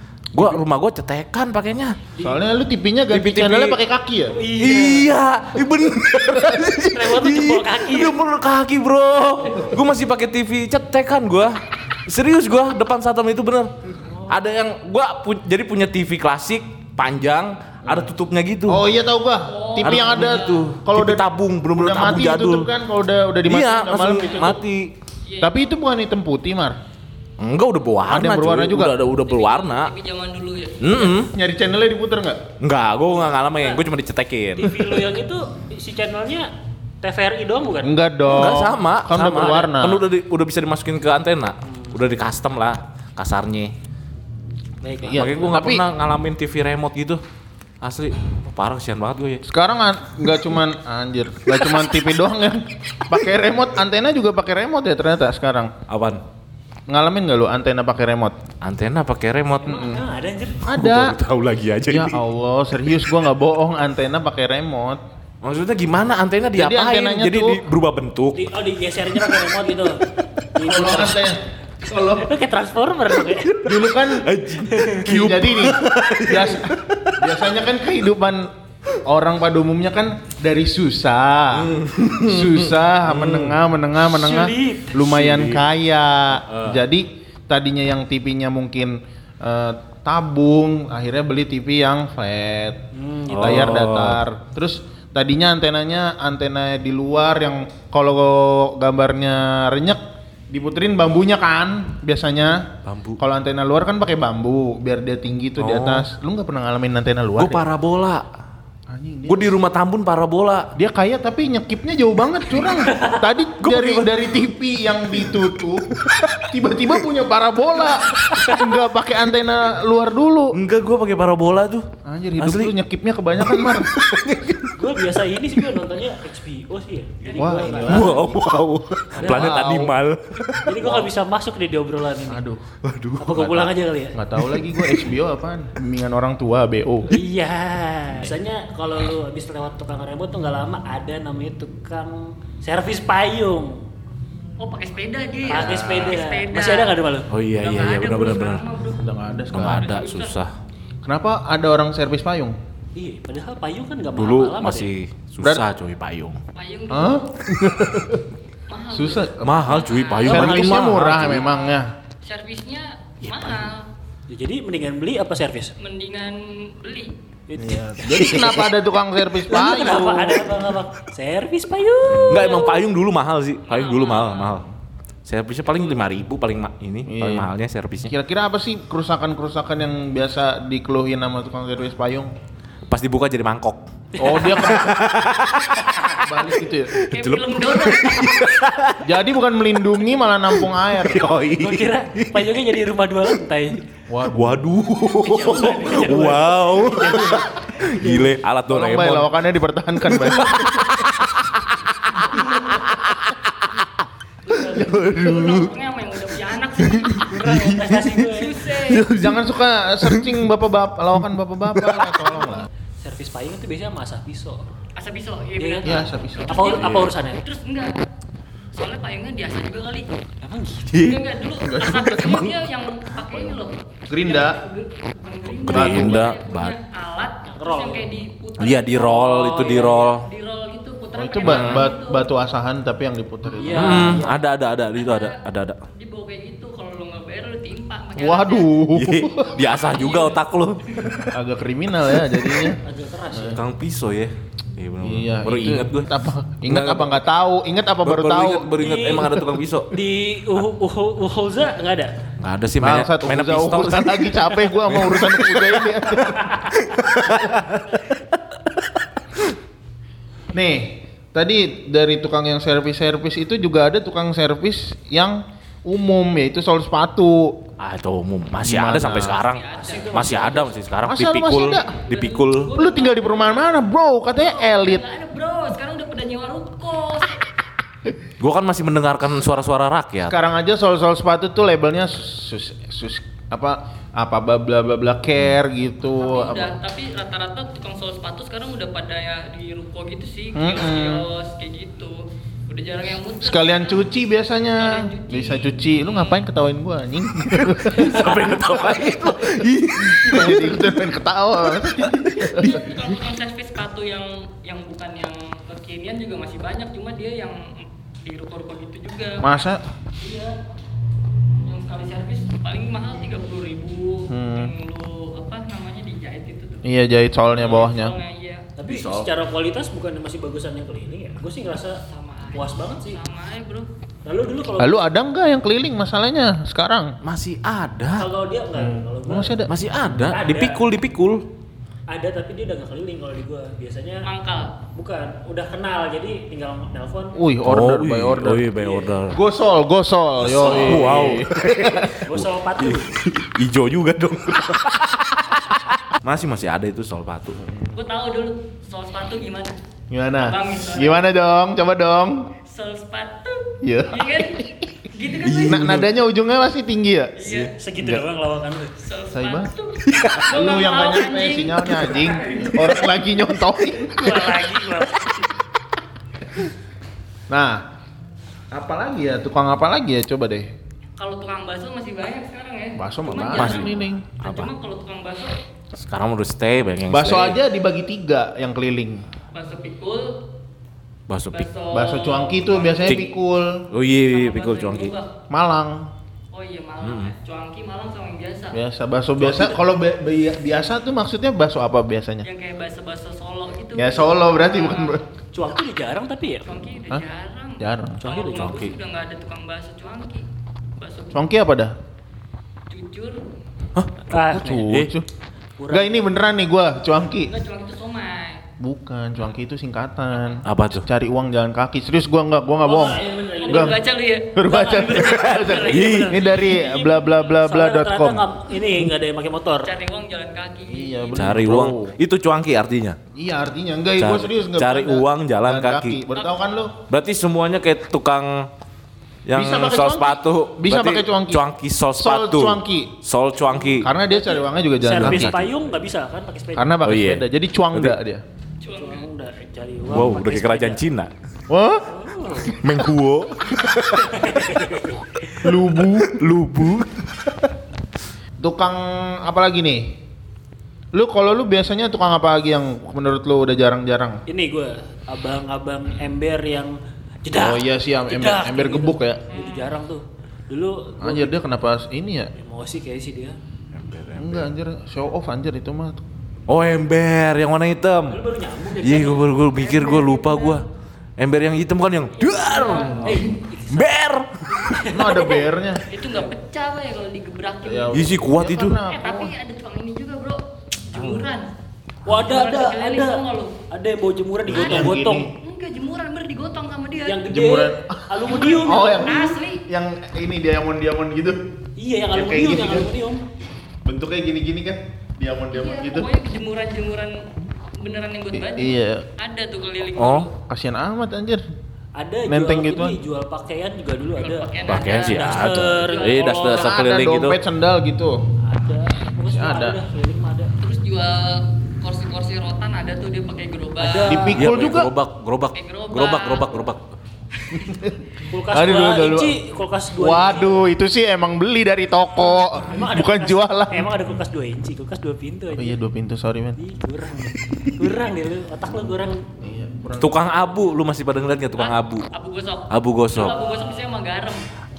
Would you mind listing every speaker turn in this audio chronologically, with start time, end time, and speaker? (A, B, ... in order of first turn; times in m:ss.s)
0:00.3-0:02.0 A
0:02.2-0:04.4 B
0:03.1-0:03.8 A
0:04.3-0:05.1 C
0:04.6-0:13.7 A
0:06.8-0:08.2 C
0:14.1-0:14.3 C
0:14.3-0:18.8 A
0:17.8-0:18.1 B
0:18.7-0:24.6 B
0:19.5-0:20.7 D
0:19.8-0:22.7 A
0:23.4-0:24.9 A
0:25.2-0:25.7 D
0:25.4-0:26.8 B
0:27.4-0:29.9 A
0:28.1-0:28.9 B
0:29.2-0:31.2 D
0:30.8-0:31.3 A
0:31.3-0:32.4 B
0:32.6-0:35.0 A
0:33.1-0:33.8 C
0:34.6-0:36.5 C
0:37.0-0:37.9 C
0:37.8-0:40.0 B
0:38.2-0:43.7 A
0:41.6-0:42.0 C
0:44.8-0:45.6 C
0:45.0-0:45.8 B
0:45.1-0:47.2 A
0:47.8-0:49.4 A
0:49.4-0:55.7 B
0:55.9-0:56.2 A
0:56.9-0:58.4 B
0:58.6-0:59.8 A
0:59.6-1:00.6 C
0:59.6-1:00.0 B
1:00.6-1:01.2 B
1:00.7-1:02.2 A
1:01.9-1:05.0 B
1:05.4-1:08.4 A
1:06.5-1:07.6 B
1:08.3-1:10.0 C
1:10.5-1:11.2 C
1:10.6-1:12.3 B
1:12.2-1:13.6 C
1:13.3-1:17.2 A
1:13.6-1:14.3 B
1:14.6-1:15.0 C
1:15.0-1:18.5 B
1:19.0-1:47.6 B
1:21.5-1:23.6 A
1:24.0-1:25.1 C
1:25.0-1:25.6 A
1:26.3-1:26.8 A
1:32.9-1:33.8 C
1:33.3-1:34.2 A
1:42.8-1:43.2 A
1:45.6-1:46.0 A
1:47.4-1:48.3 A
1:48.9-1:49.6 B
1:49.3-1:50.7 A
1:50.8-1:55.9 B
1:52.9-1:53.2 C
1:53.6-1:54.2 A
1:56.0-1:56.5 A
1:56.5-2:00.6 B
2:00.5-2:02.7 A
2:02.0-2:04.0 B
2:03.4-2:04.7 A
2:04.7-2:08.1 C
2:07.2-2:08.0 D
2:07.3-2:08.4 B
2:07.9-2:10.9 A
2:09.1-2:09.7 C
2:09.2-2:09.9 B
2:10.6-2:12.4 C
2:10.8-2:11.1 B
2:12.3-2:12.6 B
2:12.8-2:13.7 A
2:13.2-2:14.2 C
2:14.1-2:17.1 B
2:14.4-2:15.1 A
2:17.1-2:23.8 C
2:24.6-2:27.0 D
2:25.5-2:27.3 C
2:27.3-2:28.6 A
2:27.6-2:30.4 D
2:29.0-2:29.9 B
2:29.5-2:30.5 A
2:31.0-2:32.6 B
2:32.9-2:34.9 C
2:34.1-2:36.4 A
2:36.5-2:37.4 D
2:36.9-2:38.2 B
2:38.7-2:43.8 D
2:38.9-2:39.7 B
2:39.4-2:41.4 A
2:40.2-2:41.9 B
2:40.4-2:41.3 C
2:44.3-2:45.7 C
2:45.8-2:47.1 D
2:47.5-2:48.7 C
2:47.6-2:50.5 B
2:49.4-2:52.6 C
2:52.3-2:54.6 A
2:52.3-2:52.9 D
2:53.7-2:54.6 D
2:55.2-2:58.1 A
2:55.7-2:56.0 D
2:57.0-2:57.5 B
2:58.1-3:02.3 B
3:02.9-3:06.2 A
3:04.2-3:04.9 C
3:04.2-3:05.0 B
3:06.2-3:07.0 B
3:06.9-3:09.0 A
3:07.0-3:08.5 D
3:09.0-3:11.4 B
3:10.6-3:12.6 A
3:11.6-3:13.8 C
3:14.1-3:14.6 B
3:14.2-3:19.3 A
3:15.2-3:18.3 C
3:15.3-3:15.7 D
3:18.7-3:20.9 B
3:20.1-3:21.5 A
3:22.1-3:23.4 A
3:22.3-3:22.7 C
3:24.5-3:29.1 D
3:24.6-3:25.7 A
3:24.7-3:25.6 B
3:26.8-3:28.3 A
3:27.4-3:28.6 C
3:28.8-3:29.4 A
3:29.0-3:32.7 B
3:30.0-3:30.4 A
3:31.7-3:32.2 A
3:33.0-3:34.6 C
3:35.0-3:37.9 D
3:35.6-3:37.4 C
3:35.8-3:36.7 B
3:36.7-3:37.1 A
3:38.7-3:40.2 D
3:40.4-3:41.0 C
3:40.9-3:41.2 A
3:41.0-3:52.3 D
3:41.6-3:42.5 B
3:44.1-3:44.6 B
3:45.6-3:46.7 A
3:45.6-3:46.3 B
3:47.4-3:48.1 C
3:48.6-3:50.2 A
3:49.4-3:50.0 C
3:51.1-3:54.2 B
3:51.4-3:51.8 A
3:53.6-3:54.4 C
3:53.7-3:55.8 A
3:53.8-4:00.4 D
3:58.2-3:59.5 B
3:58.9-4:01.3 A
4:00.9-4:01.2 D
4:01.3-4:02.8 B
4:02.8-4:03.6 C
4:03.3-4:03.6 B
4:03.4-4:06.1 A
4:05.0-4:09.0 B
4:06.6-4:07.2 A
4:08.0-4:09.9 A
4:08.8-4:12.2 C
4:12.4-4:18.2 A
4:12.8-4:16.5 B
4:20.5-4:27.6 B
4:27.8-4:32.7 A
4:28.6-4:29.4 B
4:29.2-4:30.4 D
4:29.7-4:30.8 C
4:31.0-4:31.9 B
4:31.7-4:33.8 D
4:32.7-4:35.0 B
4:34.3-4:37.4 D
4:38.4-4:40.3 A
4:40.2-4:46.8 B
4:46.2-4:54.1 D
4:50.5-4:51.2 B
4:53.4-4:58.3 B
4:54.8-4:56.4 D
4:57.8-5:01.0 A
5:00.1-5:02.8 B
5:02.0-5:03.1 A
5:02.6-5:09.4 D
5:09.4-5:09.8 B
5:10.2-5:10.5 D
5:11.6-5:16.8 D
5:14.3-5:14.7 B
5:16.8-5:18.2 B
5:17.5-5:18.6 D
5:18.8-5:22.0 C
5:18.8-5:19.3 A
5:22.1-5:23.9 D
5:22.5-5:23.2 C
5:24.2-5:25.0 C
5:24.8-5:27.2 B
5:27.2-5:28.3 A
5:28.2-5:29.6 C
5:28.7-5:29.8 B
5:29.7-5:31.4 A
5:30.2-5:30.8 C
5:32.1-5:34.3 C
5:34.2-5:34.7 D
5:34.9-5:37.4 C
5:37.3-5:38.7 B
5:37.6-5:39.4 A
5:38.7-5:39.2 C
5:39.3-5:42.2 B
5:40.4-5:47.6 A
5:40.6-5:41.2 C
5:42.2-5:43.1 C
5:47.6-5:47.9 B
5:47.9-5:49.8 D
5:50.1-5:52.5 B
5:50.4-5:51.3 D
5:52.6-5:56.0 D
5:53.8-5:54.7 B
5:55.4-5:56.1 A
5:55.7-5:57.4 B
5:57.4-5:57.7 D
5:57.4-5:57.7 A
5:57.8-5:59.0 C
5:58.0-5:58.2 B
5:59.0-6:02.7 D
5:59.3-5:59.7 B
6:00.1-6:00.5 A
6:00.4-6:04.6 B
6:04.0-6:05.5 C
6:07.5-6:07.8 B
6:08.7-6:10.7 B
6:11.2-6:15.6 D
6:13.0-6:14.2 B
6:13.5-6:14.7 A
6:15.9-6:17.6 A
6:17.1-6:19.2 B
6:19.5-6:20.4 D
6:21.3-6:21.7 A
6:21.5-6:23.3 D
6:21.9-6:23.8 B
6:23.9-6:25.1 A
6:24.2-6:25.3 D
6:25.5-6:26.1 B
6:26.5-6:28.8 D
6:27.0-6:27.3 A
6:28.7-6:32.5 B
6:29.4-6:29.7 C
6:32.4-6:35.2 D
6:33.9-6:35.2 B
6:35.5-6:36.7 C
6:36.6-6:41.4 D
6:37.8-6:38.2 B
6:38.2-6:38.9 C
6:38.5-6:38.9 A
6:41.3-6:42.0 B
6:42.9-6:43.4 D
6:44.3-6:44.9 C
6:44.5-6:45.3 B
6:44.8-6:45.1 A
6:45.8-6:46.2 C
6:45.9-6:47.5 B
6:47.4-6:48.6 D
6:48.8-6:54.0 B
6:50.3-6:50.6 D
6:50.6-6:51.0 A
6:52.8-6:54.0 C
6:53.6-6:57.3 D
6:54.5-6:58.5 B
6:55.6-6:59.9 C
6:55.8-6:56.3 A
6:59.8-7:01.6 D
7:00.9-7:02.2 B
7:01.4-7:03.2 A
7:03.3-7:06.9 B
7:04.2-7:06.2 A
7:06.3-7:06.6 D
7:07.1-7:08.7 A
7:09.4-7:14.1 A
7:09.5-7:13.1 B
7:13.7-7:17.0 C
7:14.0-7:15.6 B
7:15.2-7:15.7 A
7:16.8-7:18.4 B
7:17.0-7:18.2 A
7:18.8-7:19.2 D
7:18.9-7:21.0 C
7:20.0-7:21.3 A
7:21.7-7:22.1 B
7:22.1-7:22.8 C
7:22.7-7:24.8 A
7:24.1-7:25.7 C
7:25.6-7:26.4 B
7:26.2-7:27.5 A
7:28.6-7:30.2 B
7:31.1-7:34.4 B
7:34.5-7:41.6 C
7:37.5-7:39.4 B
7:39.5-7:39.9 D
7:41.2-7:42.5 B
7:42.6-7:43.6 C
7:43.9-7:44.7 A
7:44.4-7:46.2 B
7:46.7-7:48.4 A
7:48.3-7:49.6 C
7:49.0-7:50.8 A
7:49.7-7:50.8 D
7:51.4-7:55.0 A
7:52.4-7:53.4 D
7:52.6-7:54.1 C
7:54.8-7:55.6 C
7:55.0-7:58.3 D
7:55.1-7:56.0 B
7:57.8-7:59.5 B
7:58.1-7:59.0 A
7:59.1-8:01.7 D
8:01.1-8:01.4 A
8:02.2-8:05.5 C
8:02.3-8:03.8 D
8:04.6-8:05.5 B
8:04.7-8:07.5 D
8:07.2-8:09.5 C
8:07.5-8:11.6 B
8:08.4-8:09.8 D
8:12.0-8:13.4 C
8:12.3-8:13.1 B
8:14.0-8:16.3 B
8:15.7-8:17.4 D
8:18.0-8:20.5 D
8:18.5-8:19.2 B
8:20.2-8:20.5 A
8:20.6-8:21.6 B
8:22.2-8:26.8 C
8:22.4-8:23.2 B
8:24.4-8:26.9 D
8:24.8-8:27.6 A
8:26.7-8:28.4 B
8:28.6-8:30.7 C
8:29.5-8:30.0 B
8:30.8-8:34.5 D
8:34.0-8:34.6 C
8:34.2-8:35.1 B
8:34.5-8:37.1 A
8:35.7-8:36.9 D
8:37.8-8:39.6 B
8:38.5-8:40.8 C
8:40.1-8:44.1 B
8:42.8-8:46.0 C
8:45.7-8:46.8 B
8:46.8-8:49.4 C
8:49.6-8:50.8 B
8:50.2-8:52.3 A
8:51.7-8:54.6 D
8:52.9-8:53.6 A
8:53.4-8:54.0 C